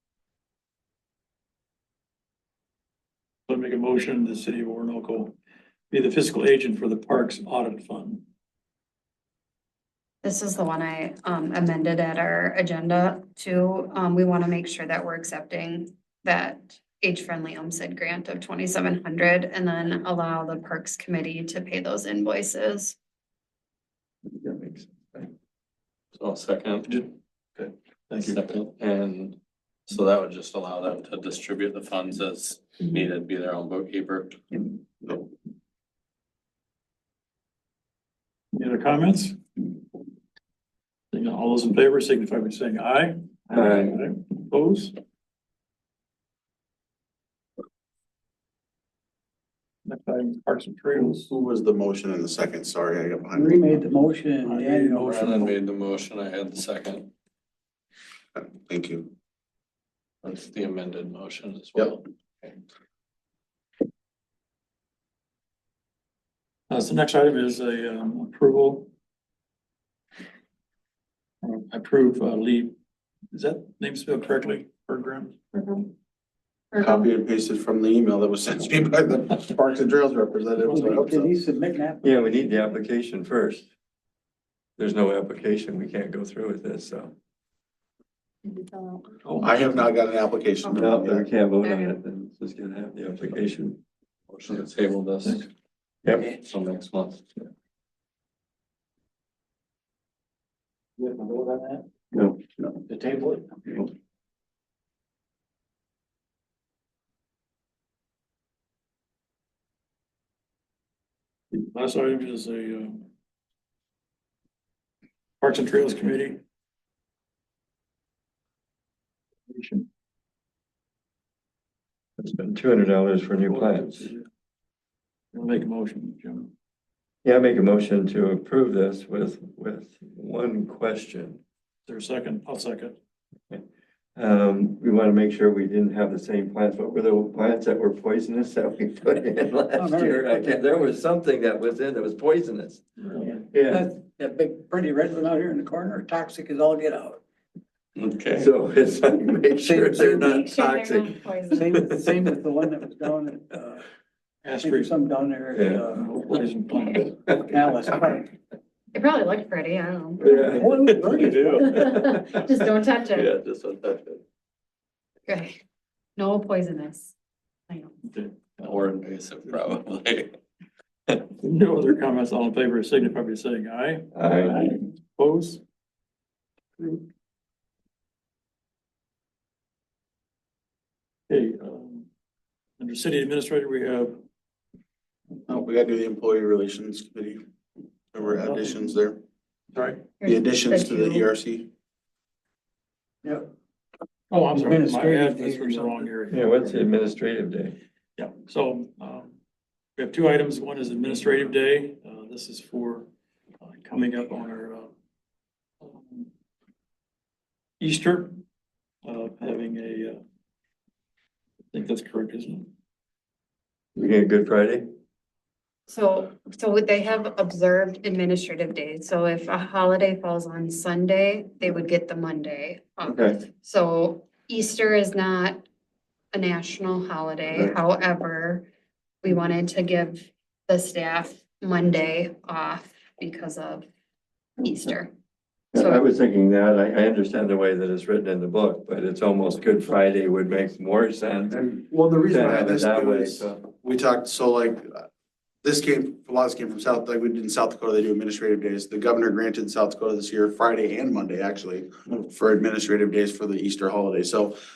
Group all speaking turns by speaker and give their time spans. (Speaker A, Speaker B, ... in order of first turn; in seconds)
Speaker A: 3.5-5.3, 5.9-8.2, 26.9-28.4, 38.5-39.4, 41.1-44.9, 49.9-51.3, 66.7-68.9, 71.4-72.7, 73.3-75.4, 89.2-89.8, 101.0-101.8, 111.5-113.1, 115.4-116.4, 119.5-119.9, 123.5-124.2, 125.3-126.5, 131.9-132.9, 143.0-143.4, 154.4-154.9, 155.9-157.1, 168.1-168.7, 171.4-175.6, 181.3-182.1, 182.8-184.2, 188.2-188.8, 189.7-190.1, 194.3-196.7, 198.2-199.3, 200.0-203.1, 203.6-204.9, 205.8-206.3, 207.8-208.4, 209.0-210.2, 211.7-212.7
Speaker B: 10.2-22.9, 75.5-75.9, 76.7-77.1, 88.4-89.1, 90.6-90.9, 91.6-92.0, 150.0-151.8, 158.9-160.4, 161.5-163.3, 165.3-165.6, 166.2-167.1, 167.7-167.9, 190.2-191.3, 215.9-225.7, 226.3-228.7, 229.2-233.9, 234.6-235.1, 235.7-236.0
Speaker C: 24.3-25.3, 43.5-44.0, 82.0-83.7, 84.8-87.1, 90.7-93.8, 96.0-97.2, 122.2-124.1, 127.2-131.4, 134.2-142.8, 143.5-143.9, 148.3-152.0, 155.5-155.8, 160.2-162.3, 174.1-174.7, 196.3-197.8, 213.9-214.8, 223.0-223.4, 235.7-241.6, 242.3-243.6
Speaker D: 26.1-27.0, 28.2-29.4, 29.9-34.4, 54.5-57.1, 60.2-62.5, 94.3-95.5, 148.0-148.5, 161.0-161.5, 163.2-164.2, 168.6-170.3
Speaker E: 51.0-53.9, 58.4-59.1, 76.8-81.3, 89.4-91.3, 185.5-187.4, 188.1-189.2, 190.2-191.7, 241.5-245.1, 245.6-254.6
Speaker F: 53.3-55.5, 80.7-82.2, 102.9-103.7, 139.7-140.7, 143.2-147.2, 149.5-150.4, 151.5-153.8, 154.5-156.1, 157.3-158.3, 160.2-161.8, 194.5-196.1